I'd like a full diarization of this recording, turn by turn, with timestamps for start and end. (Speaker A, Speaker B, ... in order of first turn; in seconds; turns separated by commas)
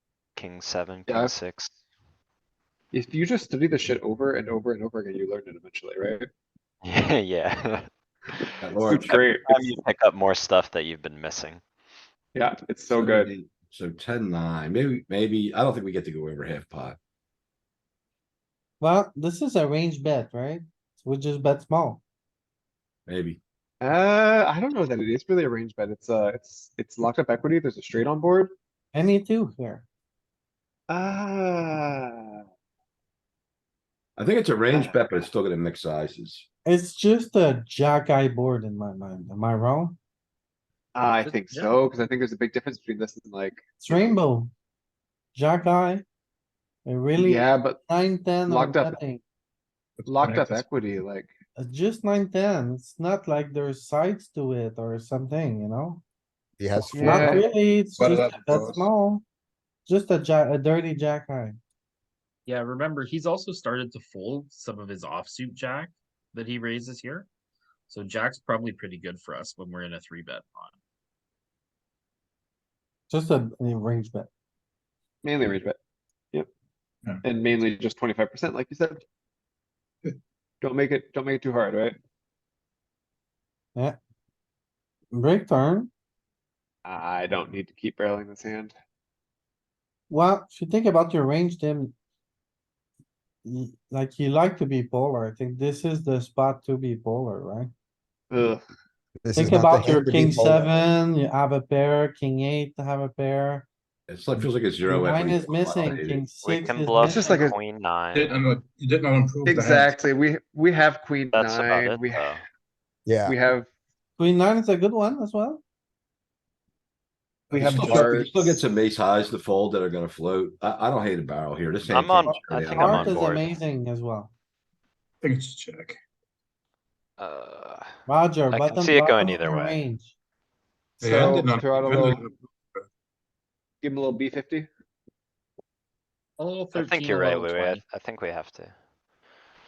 Speaker A: 0.3-1.7, Speaker B: 1.1-1.3, Speaker B: 2.9-6.3, Speaker A: 6.8-8.5, Speaker C: 8.6-9.2, Speaker B: 8.8-9.7, Speaker A: 9.1-11.6, Speaker B: 12.3-13.3, Speaker C: 12.9-17.0, Speaker D: 18.8-22.0, Speaker C: 23.1-23.4, Speaker B: 23.8-28.5, Speaker D: 28.9-29.9, Speaker B: 30.9-32.4, Speaker C: 34.2-36.5, Speaker B: 34.7-35.3, Speaker D: 36.6-40.0, Speaker B: 40.9-44.2, Speaker E: 41.2-41.7, Speaker D: 43.8-44.5, Speaker D: 45.3-46.0, Speaker D: 46.8-49.2, Speaker B: 47.1-49.0, Speaker F: 50.0-50.7, Speaker B: 50.0-51.3, Speaker D: 51.5-56.0, Speaker G: 56.6-57.5, Speaker D: 56.9-59.2, Speaker B: 57.0-57.5, Speaker F: 58.0-58.9, Speaker D: 59.9-61.6, Speaker E: 62.5-67.3, Speaker E: 67.9-70.8, Speaker D: 73.1-74.3, Speaker B: 75.2-75.8, Speaker B: 77.2-79.0, Speaker B: 80.6-82.0, Speaker D: 85.1-85.9, Speaker B: 86.8-88.7, Speaker D: 90.1-91.9, Speaker D: 93.4-97.7, Speaker B: 98.3-98.6, Speaker G: 99.2-100.7, Speaker D: 99.3-103.7, Speaker C: 104.1-106.2, Speaker D: 104.8-107.1, Speaker A: 106.4-108.3, Speaker B: 107.0-107.6, Speaker F: 108.1-110.0, Speaker B: 109.5-112.4, Speaker A: 111.3-112.4, Speaker G: 113.0-113.3, Speaker B: 113.2-113.7, Speaker D: 114.2-115.6, Speaker B: 117.5-118.6, Speaker C: 117.5-123.4, Speaker A: 121.8-123.6, Speaker D: 122.3-124.3, Speaker F: 125.2-126.0, Speaker A: 127.2-127.9, Speaker D: 128.1-130.1, Speaker A: 128.5-129.8, Speaker F: 131.0-132.8, Speaker B: 131.0-132.2, Speaker B: 133.8-134.7, Speaker E: 136.4-137.8, Speaker A: 136.7-138.7